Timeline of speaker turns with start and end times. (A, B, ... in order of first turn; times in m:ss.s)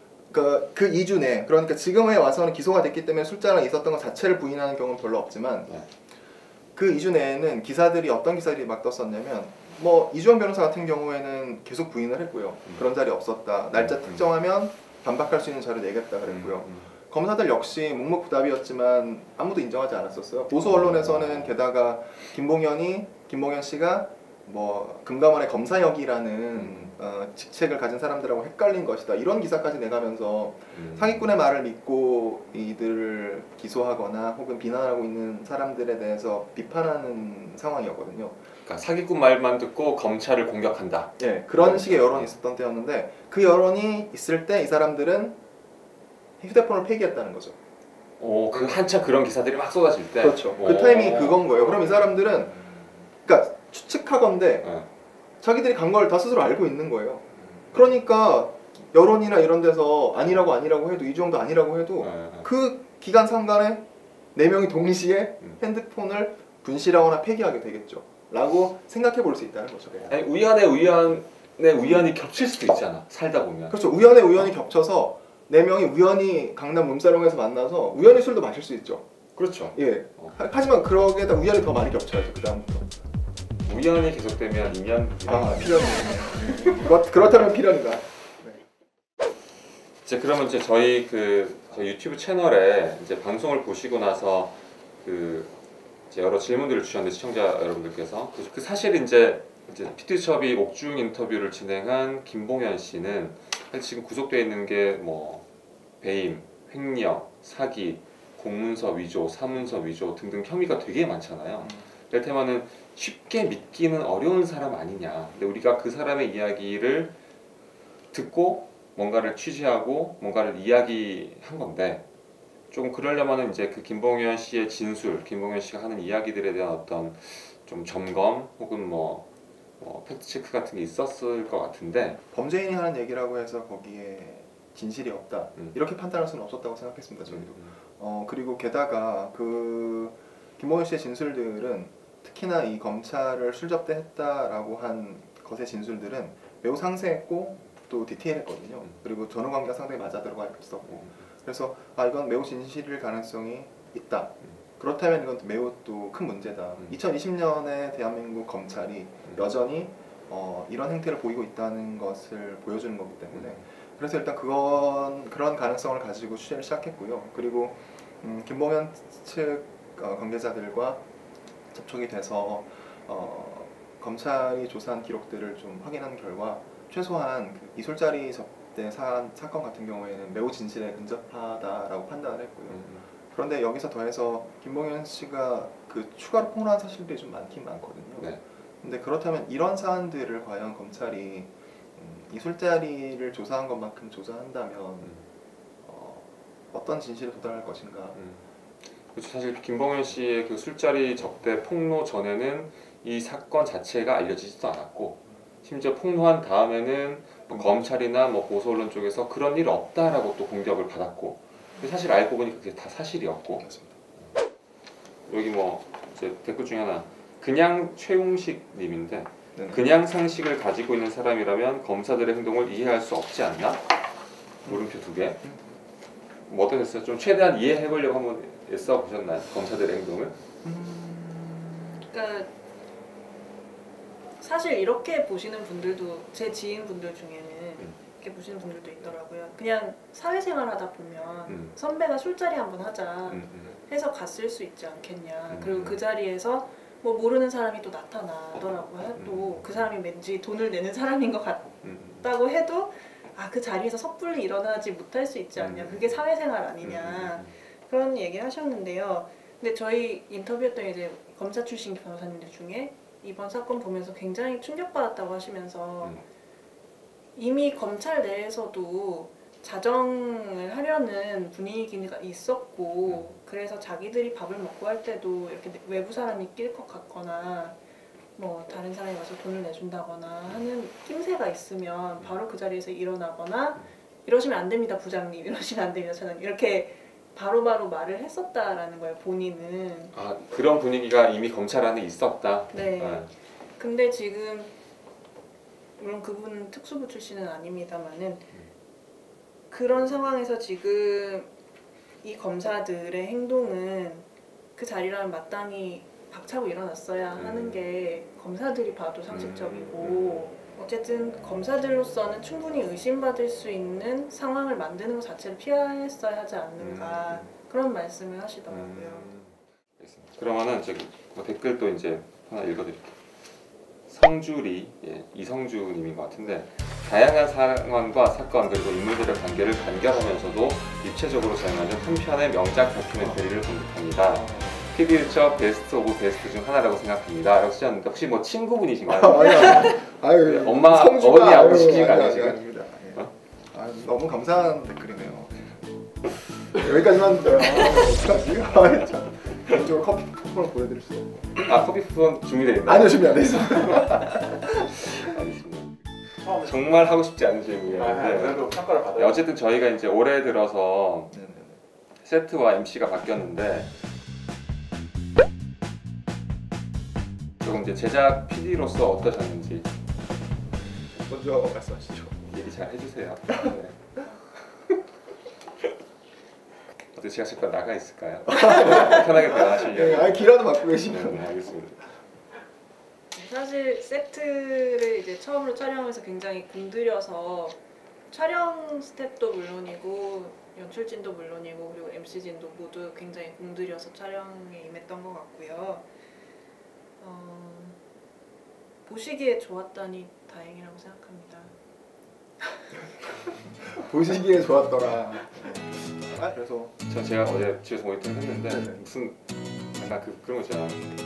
0:00.3-0:05.7 A
0:06.8-0:38.4 A
0:13.8-0:14.2 B
0:16.3-0:16.9 B
0:20.6-0:21.5 B
0:30.8-0:31.0 B
0:38.6-0:42.3 B
0:41.2-0:45.4 A
0:46.4-0:47.6 A
0:48.2-0:51.8 B
0:50.2-0:52.6 A
0:53.2-0:54.7 A
0:55.4-1:10.2 A
1:02.0-1:02.5 B
1:10.1-1:13.8 B
1:13.7-1:19.0 A
1:19.4-1:20.3 B
1:19.7-1:22.9 A
1:23.6-1:26.8 B
1:25.3-1:28.6 A
1:30.0-1:35.5 B
1:36.1-1:45.5 B
1:46.0-1:57.2 B
1:51.6-1:51.9 A
1:58.1-2:02.0 B
2:02.7-2:09.3 B
2:09.8-2:12.2 B
2:12.3-2:51.0 A
2:17.3-2:17.7 B
2:51.7-3:08.3 A
3:02.7-3:03.1 B
3:08.2-3:08.4 B
3:08.8-3:15.2 A
3:15.8-3:18.2 A
3:18.2-3:18.4 B
3:19.1-3:33.7 B
3:33.6-3:34.0 A
3:35.3-3:43.8 B
3:39.6-3:39.8 A
3:44.7-3:45.4 B
3:45.4-3:45.8 A
3:46.5-3:50.4 B
3:50.6-3:51.9 A
3:52.0-3:52.5 C
3:54.4-4:26.2 C
4:01.5-4:01.7 B
4:03.3-4:03.8 B
4:05.5-4:06.0 B
4:09.2-4:09.9 B
4:11.8-4:12.3 B
4:15.6-4:16.2 B
4:16.8-4:17.5 B
4:27.4-4:37.8 C
4:38.4-4:50.1 C
4:50.1-4:53.3 B
4:52.7-4:54.7 C
4:56.0-4:58.5 C
4:59.7-5:01.5 C
5:02.2-5:19.3 C
5:07.4-5:07.8 B
5:09.3-5:10.5 B
5:16.8-5:17.5 B
5:18.7-5:23.2 B
5:24.1-5:42.6 B
5:34.3-5:35.0 A
5:39.1-5:45.7 A
5:46.7-5:51.6 A
5:51.6-5:54.3 B
5:52.8-5:55.1 A
5:55.0-6:01.3 B
6:01.3-6:01.8 A
6:02.2-6:03.9 B
6:07.6-6:09.9 B
6:11.2-6:12.4 A
6:12.5-6:14.1 B
6:17.1-6:22.1 B
6:18.5-6:21.4 A
6:23.3-6:27.8 C
6:28.3-6:36.1 C
6:37.2-6:38.0 C
6:39.0-6:41.7 C
6:43.6-6:46.9 A
6:47.1-6:49.4 B
6:48.7-6:49.0 A
6:50.0-6:51.1 B